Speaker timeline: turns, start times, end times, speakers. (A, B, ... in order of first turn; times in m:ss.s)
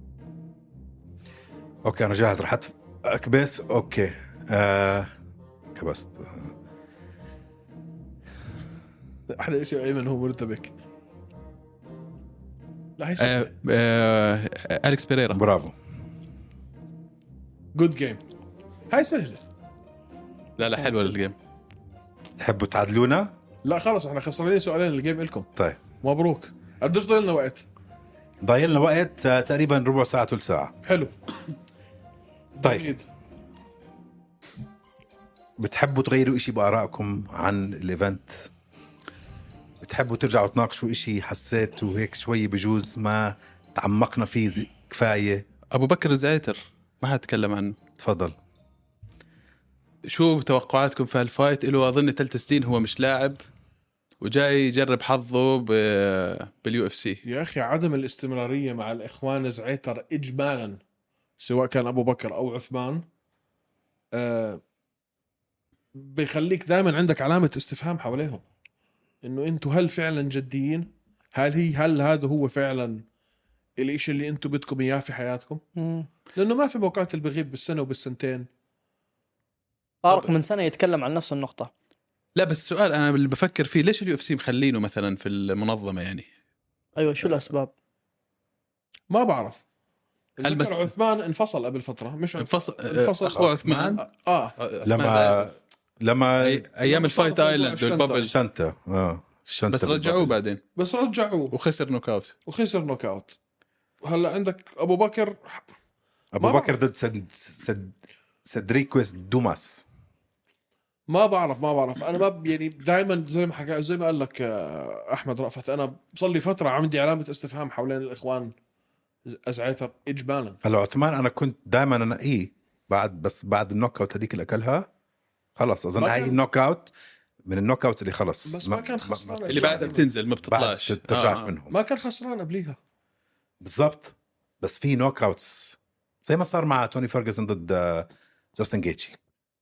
0:01.8-0:05.1 A
0:05.7-0:06.5 A
0:09.3-0:10.7 B
0:13.0-0:13.5 B
0:13.2-0:15.4 C
0:15.3-0:15.7 A
0:17.7-0:18.2 B
0:18.9-0:19.4 B
0:20.6-0:21.3 C
0:22.4-0:23.3 A
0:23.6-0:25.5 B
0:26.0-0:27.6 B
0:28.4-0:30.7 A
0:30.8-0:31.1 B
0:32.6-0:33.0 B
0:32.6-0:32.9 A
0:35.6-0:38.5 A
0:39.8-0:45.5 A
0:45.7-0:47.8 C
0:48.0-0:48.4 A
0:50.1-0:53.4 C
0:54.2-0:57.2 C
0:57.2-1:00.8 B
1:01.4-1:03.0 B
1:04.1-1:04.6 B
1:06.0-1:08.4 B
1:09.2-1:13.0 B
1:13.8-1:15.6 B
1:15.8-1:16.1 D
1:16.3-1:18.5 B
1:20.0-1:21.7 D
1:22.4-1:26.2 C
1:27.0-1:27.7 D
1:29.1-1:29.6 B
1:30.4-1:34.5 B
1:30.4-1:30.9 C
1:32.4-1:34.0 C
1:33.4-1:33.6 A
1:34.6-1:35.5 C
1:34.8-1:36.7 A
1:36.4-1:38.3 C
1:36.8-1:38.3 B
1:38.1-1:40.3 A
1:39.7-1:40.6 C
1:40.8-1:41.5 B
1:41.5-1:42.3 C
1:42.4-1:43.4 B
1:44.0-1:45.7 B
1:46.3-1:49.8 A
1:46.4-1:46.7 B
1:51.1-1:58.5 B
1:59.2-2:00.6 B
2:00.6-2:04.9 A
2:05.6-2:06.9 A
2:06.0-2:06.4 B
2:07.4-2:11.7 A
2:08.4-2:10.0 B
2:09.5-2:11.5 C
2:11.7-2:12.8 B
2:13.6-2:19.2 A